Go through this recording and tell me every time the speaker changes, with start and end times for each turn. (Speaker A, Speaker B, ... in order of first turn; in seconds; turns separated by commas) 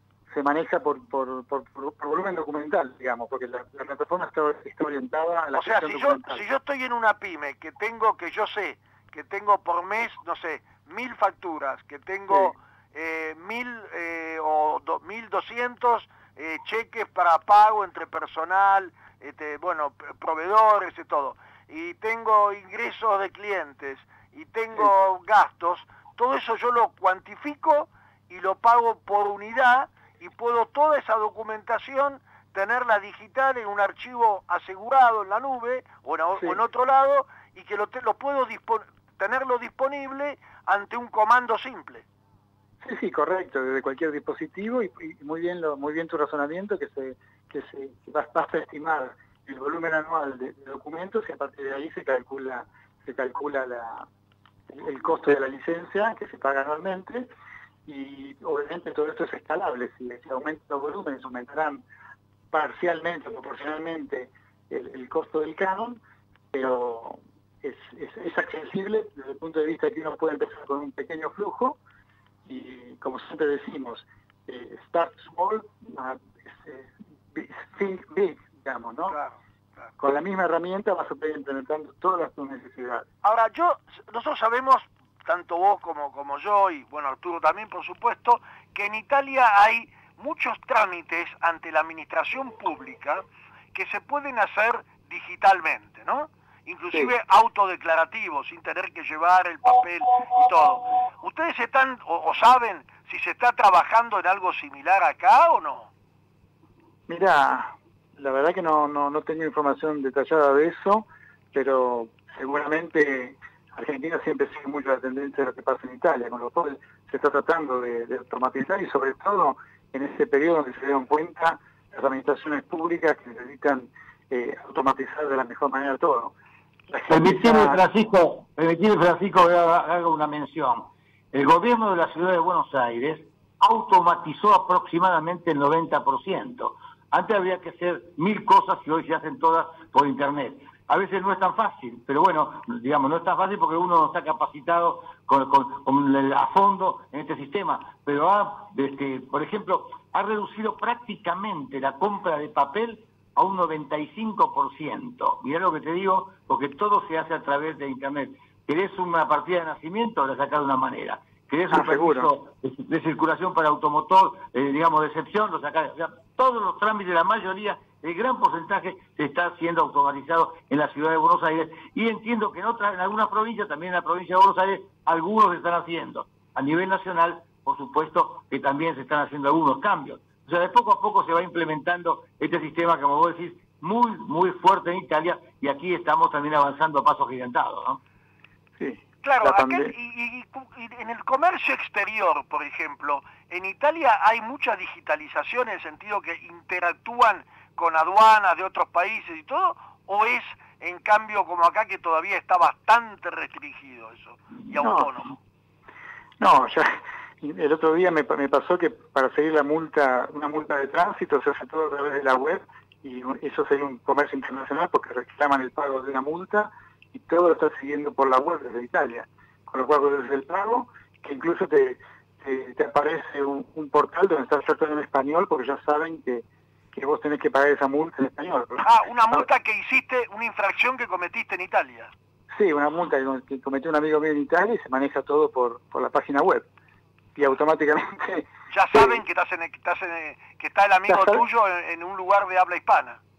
Speaker A: 0.3-6.4, Speaker B: 5.5-42.0, Speaker A: 42.8-54.1, Speaker A: 54.7-57.3, Speaker A: 57.9-61.8, Speaker A: 62.5-66.0, Speaker A: 66.5-71.8, Speaker A: 72.4-79.2, Speaker B: 79.1-79.9, Speaker A: 80.0-83.0, Speaker B: 83.2-105.9, Speaker A: 107.1-126.3, Speaker A: 126.9-127.8, Speaker C: 127.1-188.0, Speaker A: 161.7-162.3, Speaker A: 188.8-189.9, Speaker B: 189.2-205.3, Speaker A: 204.8-205.1, Speaker A: 206.4-229.4, Speaker B: 228.8-232.1, Speaker A: 232.5-236.7, Speaker A: 237.3-239.2, Speaker B: 238.7-243.2, Speaker A: 241.1-241.4